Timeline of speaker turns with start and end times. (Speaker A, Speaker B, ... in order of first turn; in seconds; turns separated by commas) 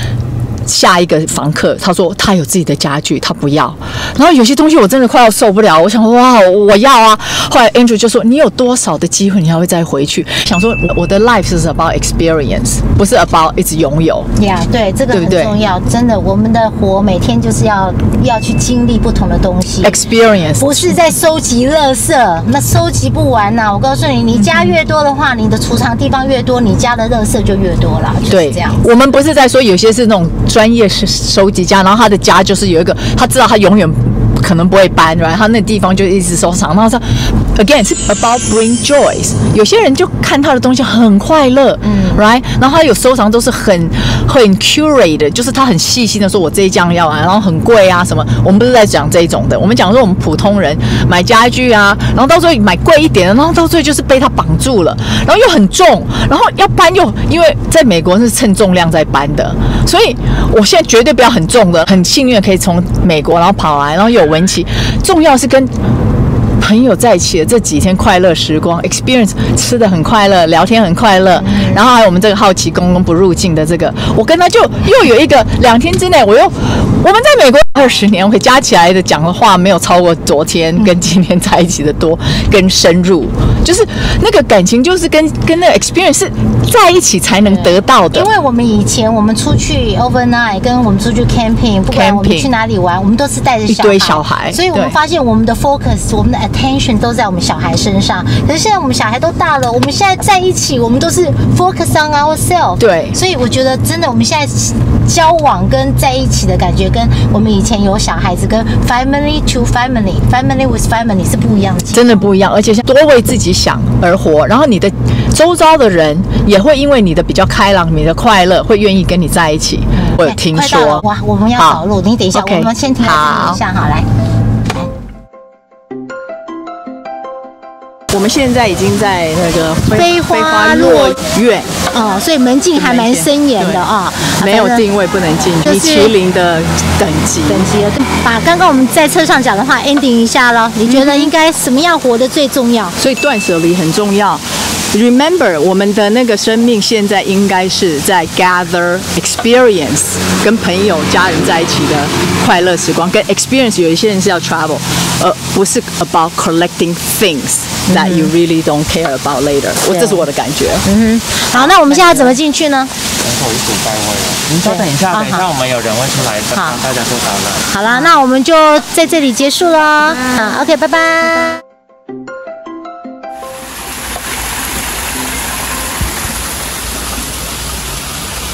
Speaker A: 0.7-14.3, Speaker B: 14.4-20.0, Speaker A: 15.1-15.6, Speaker A: 19.8-21.0, Speaker B: 20.6-28.9, Speaker A: 24.4-24.7, Speaker A: 28.3-65.7, Speaker B: 41.8-42.2, Speaker A: 66.6-88.3, Speaker B: 71.4-71.8, Speaker B: 87.5-112.3, Speaker A: 91.9-92.5, Speaker A: 93.7-95.0, Speaker A: 102.8-103.2, Speaker A: 111.9-121.0, Speaker B: 120.0-124.1, Speaker A: 121.6-121.8, Speaker A: 122.3-123.6, Speaker A: 128.1-131.8, Speaker B: 129.9-131.2, Speaker B: 131.9-134.9, Speaker A: 132.8-137.6, Speaker B: 135.6-136.1, Speaker B: 137.5-142.9, Speaker A: 140.8-141.3, Speaker A: 143.0-160.9, Speaker B: 157.9-158.3, Speaker B: 159.9-160.3, Speaker B: 160.8-162.9, Speaker A: 161.5-162.4, Speaker C: 163.2-167.7, Speaker B: 164.6-165.5, Speaker B: 167.7-171.6